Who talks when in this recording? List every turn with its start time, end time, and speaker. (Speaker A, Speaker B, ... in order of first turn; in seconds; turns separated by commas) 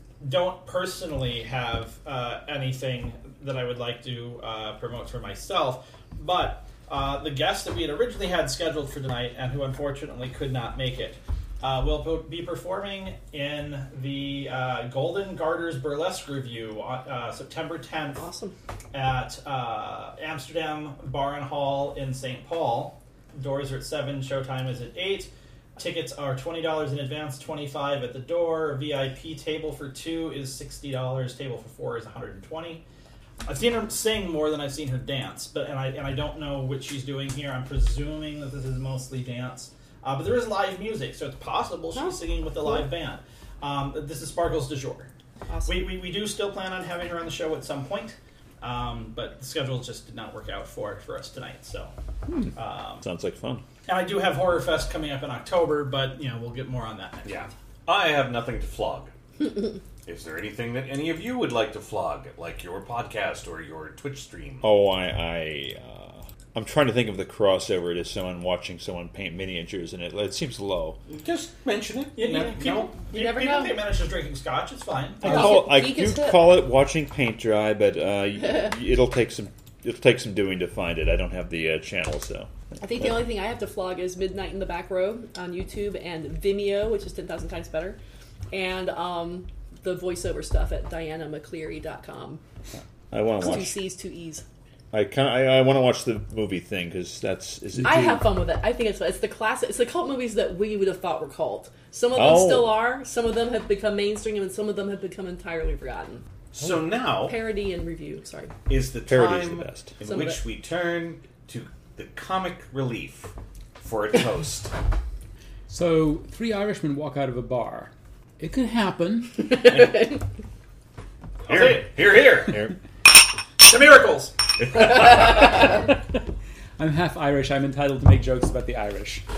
Speaker A: 0.2-18.2, Speaker B: 18.2-18.5, Speaker A: 18.9-32.8, Speaker A: 33.4-45.1, Speaker B: 41.9-42.9, Speaker B: 45.5-45.9, Speaker A: 45.6-51.9, Speaker C: 52.3-53.6, Speaker A: 52.5-53.0, Speaker A: 53.9-57.5, Speaker D: 57.2-59.1, Speaker D: 60.0-64.7, Speaker C: 64.6-71.0, Speaker D: 71.1-72.9, Speaker A: 72.2-75.6, Speaker B: 73.1-73.8, Speaker B: 75.2-76.4, Speaker C: 75.2-83.1, Speaker B: 82.8-88.0, Speaker B: 88.5-92.4, Speaker C: 93.1-93.8, Speaker B: 93.4-94.4, Speaker C: 94.9-98.3, Speaker B: 97.8-106.2, Speaker C: 102.1-102.8, Speaker D: 106.5-107.4, Speaker B: 107.1-108.5, Speaker D: 108.7-114.7, Speaker C: 109.1-110.0, Speaker B: 110.0-110.4, Speaker E: 115.7-119.7, Speaker D: 119.7-120.0, Speaker B: 119.7-120.0, Speaker A: 121.5-122.2, Speaker D: 121.5-122.7, Speaker A: 123.6-125.2, Speaker D: 124.7-125.1, Speaker E: 126.8-129.2